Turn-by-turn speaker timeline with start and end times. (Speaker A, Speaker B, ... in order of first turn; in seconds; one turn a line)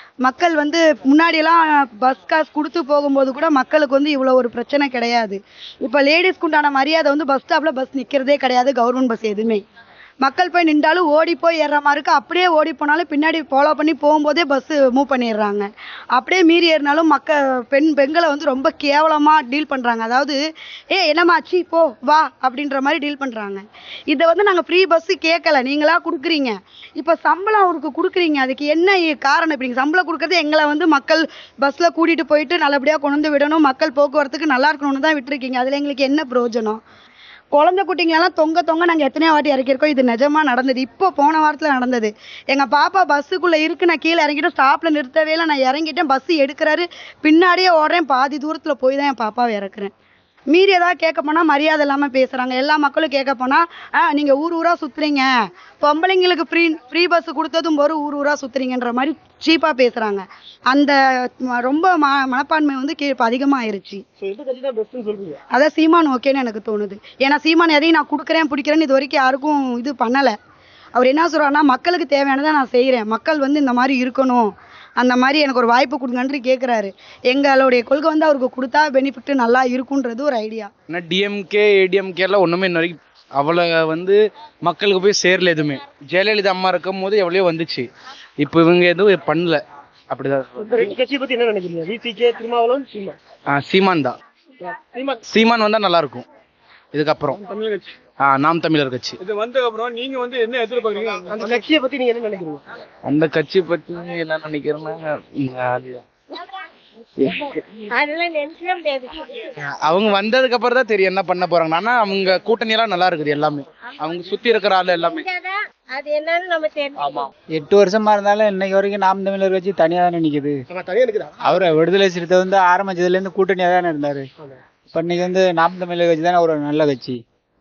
Speaker A: 0.2-9.6
Speaker A: 10.2-20.4
Speaker A: 20.9-36.8
Speaker A: 37.5-49.9
Speaker A: 50.5-55.3
Speaker A: 55.8-64.0
Speaker B: 64.2-65.4
Speaker A: 65.5-70.3
Speaker A: 71.0-80.7
Speaker C: 80.9-91.0
Speaker B: 90.6-93.2
Speaker C: 93.5-94.2
Speaker B: 94.7-95.2
Speaker C: 95.3-96.2
Speaker C: 96.9-97.4
Speaker D: 97.5-97.9
Speaker C: 98.2-99.2
Speaker D: 99.2-101.6
Speaker B: 101.3-102.6
Speaker C: 103.0-106.0
Speaker E: 107.9-109.4
Speaker C: 109.6-115.2
Speaker E: 114.1-117.3
Speaker F: 117.6-120.6
Speaker B: 120.7-121.8
Speaker F: 121.4-124.2
Speaker F: 124.9-127.2